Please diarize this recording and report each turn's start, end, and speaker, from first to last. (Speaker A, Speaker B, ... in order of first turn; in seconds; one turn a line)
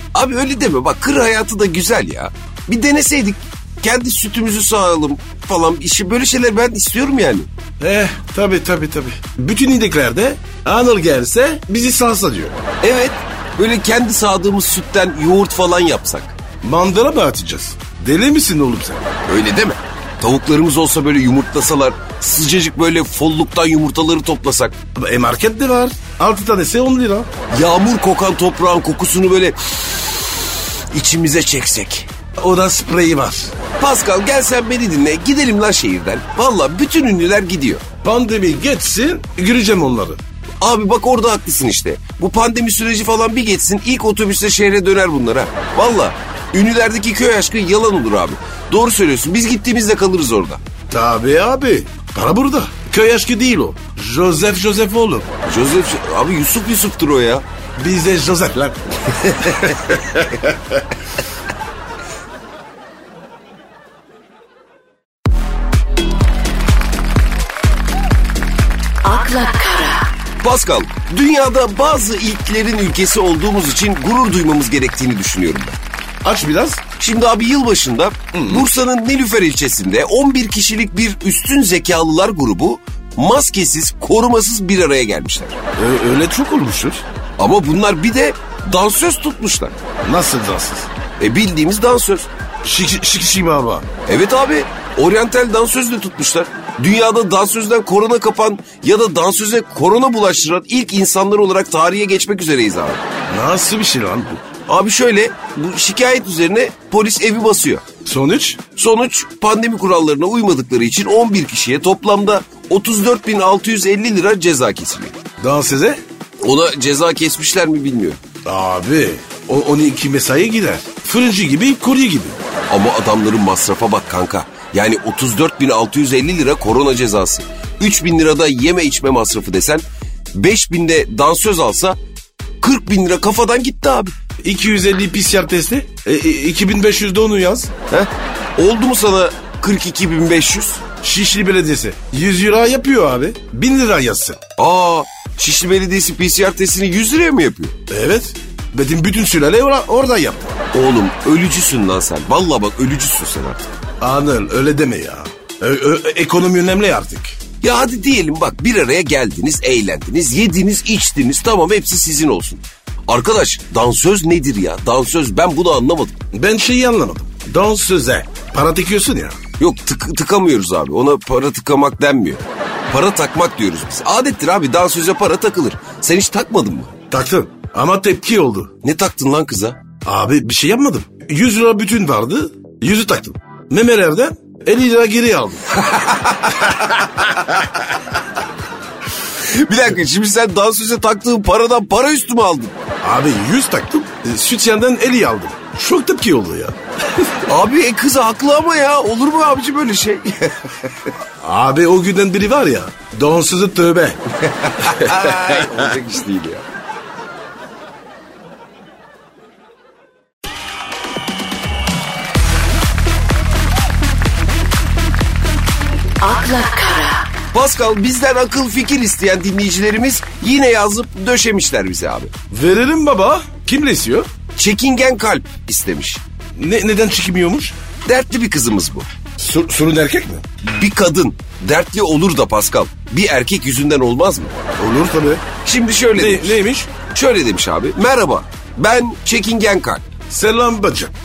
Speaker A: 0.1-7.5
Speaker B: 7.8-12.6
Speaker A: 12.8-16.4
Speaker B: 16.6-19.0
Speaker A: 19.3-24.8
Speaker B: 25.0-27.3
Speaker A: 27.5-32.1
Speaker B: 32.4-33.5
Speaker A: 33.8-37.8
Speaker B: 38.0-40.2
Speaker A: 40.6-50.6
Speaker B: 50.9-55.3
Speaker A: 55.4-57.4
Speaker B: 57.8-60.8
Speaker A: 59.3-60.0
Speaker C: 69.1-70.0
Speaker A: 70.4-75.8
Speaker B: 76.2-76.8
Speaker A: 77.0-85.6
Speaker B: 78.3-78.7
Speaker B: 85.8-87.0
Speaker A: 87.4-89.8
Speaker B: 90.0-90.9
Speaker A: 91.2-92.3
Speaker B: 92.6-93.9
Speaker A: 94.1-103.0
Speaker B: 103.3-104.4
Speaker A: 104.7-107.8
Speaker B: 108.0-108.6
Speaker A: 108.8-115.2
Speaker B: 115.4-116.0
Speaker A: 116.4-118.2
Speaker B: 118.5-122.4
Speaker A: 122.7-129.8
Speaker A: 130.3-132.0
Speaker A: 132.6-134.1
Speaker B: 134.4-137.7
Speaker A: 137.9-140.8
Speaker B: 141.0-144.4
Speaker A: 144.6-147.7
Speaker B: 147.9-150.5
Speaker A: 150.7-153.7
Speaker B: 154.0-157.4
Speaker A: 157.6-166.2
Speaker B: 166.3-169.4
Speaker A: 169.6-176.9
Speaker B: 177.1-178.7
Speaker A: 178.8-179.8
Speaker B: 180.1-185.7
Speaker A: 185.7-187.7
Speaker A: 189.3-192.7
Speaker B: 193.0-197.4
Speaker A: 197.5-201.1
Speaker B: 201.4-204.2
Speaker A: 204.5-206.7
Speaker B: 204.7-205.9
Speaker C: 216.2-217.2
Speaker A: 217.5-222.3
Speaker B: 222.5-224.3
Speaker A: 224.6-226.2
Speaker B: 226.6-227.8
Speaker A: 228.1-229.1
Speaker B: 229.4-230.4
Speaker A: 230.6-234.5
Speaker B: 234.8-235.4
Speaker A: 235.6-240.1
Speaker B: 236.2-236.9
Speaker B: 240.3-241.1